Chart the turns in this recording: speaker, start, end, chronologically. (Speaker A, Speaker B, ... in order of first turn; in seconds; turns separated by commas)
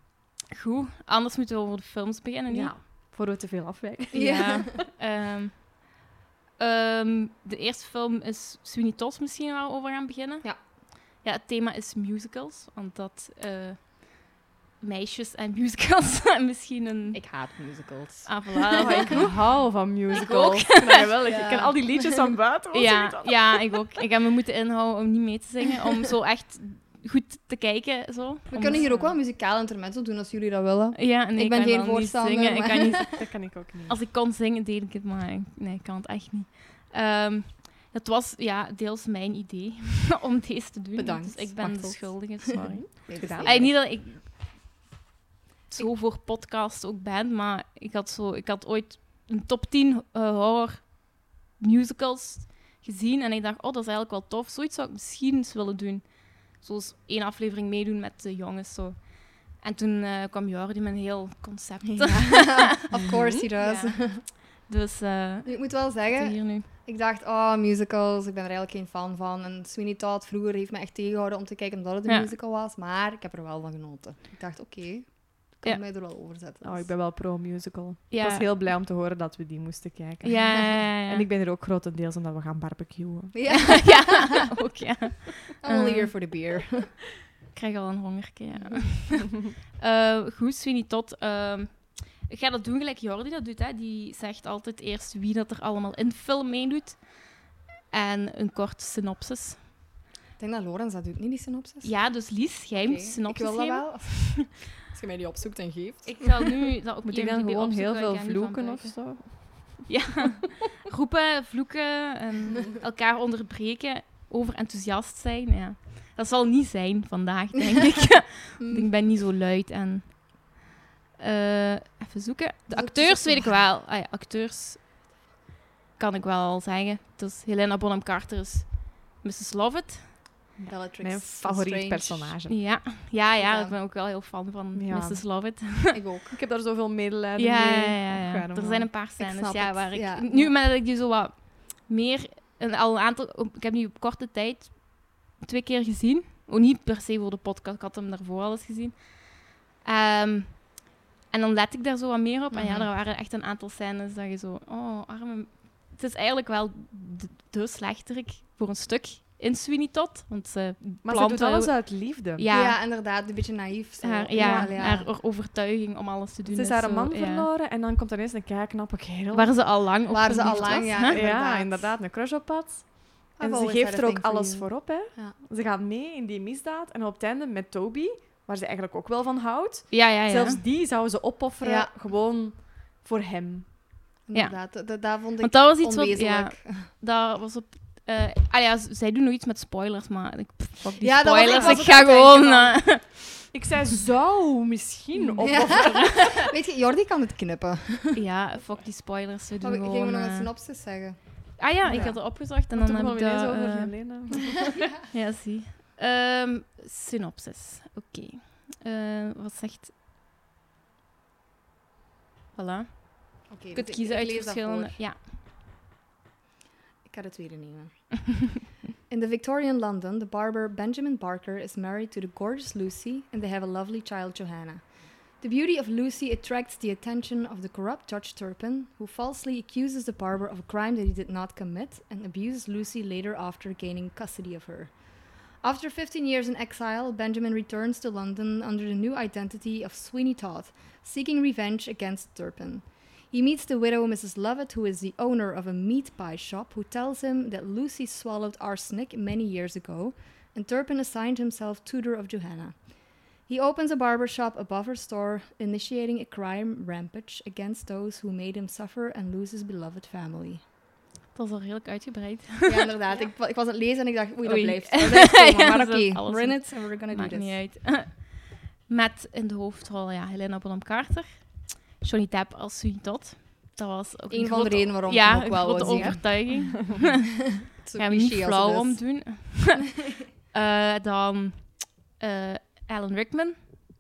Speaker A: 0.6-2.7, Speaker B: 2.5-4.8, Speaker A: 4.1-6.0, Speaker C: 4.1-4.6, Speaker A: 6.6-17.2, Speaker C: 17.1-19.2, Speaker A: 18.3-19.4, Speaker B: 18.8-23.8, Speaker A: 19.9-21.1, Speaker C: 21.2-22.3, Speaker A: 22.7-28.9, Speaker C: 28.5-33.0, Speaker B: 28.6-29.1, Speaker A: 30.9-44.4, Speaker B: 33.1-34.0, Speaker C: 41.0-43.7, Speaker B: 42.6-43.7, Speaker A: 45.7-66.7, Speaker C: 61.9-64.2, Speaker B: 62.9-63.5, Speaker C: 65.5-76.9, Speaker A: 72.1-72.3, Speaker B: 76.6-83.5, Speaker A: 78.1-78.5, Speaker A: 80.2-81.3, Speaker C: 83.3-84.3, Speaker A: 83.5-86.1, Speaker C: 85.6-86.9, Speaker A: 87.5-99.7, Speaker C: 88.5-88.9, Speaker C: 100.4-102.1, Speaker A: 101.8-104.3, Speaker C: 102.8-106.4, Speaker A: 106.0-120.5, Speaker B: 107.0-109.9, Speaker C: 118.6-118.9, Speaker A: 121.2-124.8, Speaker C: 122.7-123.6, Speaker A: 126.0-130.2, Speaker B: 130.6-132.7, Speaker C: 130.7-132.4, Speaker A: 132.5-135.9, Speaker C: 133.4-133.8, Speaker B: 134.7-135.6, Speaker C: 135.9-136.4, Speaker B: 136.3-139.0, Speaker A: 137.4-162.8, Speaker C: 139.2-140.6, Speaker C: 152.5-152.9, Speaker B: 161.0-162.5, Speaker C: 162.5-165.1, Speaker A: 164.0-167.5, Speaker B: 164.3-164.9, Speaker B: 166.5-169.6, Speaker A: 169.3-171.2, Speaker C: 170.1-171.9, Speaker B: 170.3-184.1, Speaker C: 173.4-175.4, Speaker A: 179.9-180.6, Speaker C: 181.6-181.9, Speaker C: 184.2-186.9, Speaker A: 184.3-193.3, Speaker C: 191.0-193.1, Speaker B: 191.4-191.9, Speaker B: 193.5-196.5, Speaker A: 195.2-196.4, Speaker C: 195.4-198.2, Speaker A: 198.1-200.5, Speaker C: 199.6-202.2, Speaker A: 201.6-204.3, Speaker B: 201.8-204.8, Speaker A: 205.1-209.9, Speaker A: 212.6-215.2, Speaker C: 213.5-215.0, Speaker C: 217.1-260.6, Speaker A: 261.3-263.3, Speaker C: 262.7-267.6, Speaker A: 264.4-277.1, Speaker C: 274.3-279.2, Speaker B: 275.8-277.0, Speaker A: 277.9-279.9, Speaker A: 280.5-283.7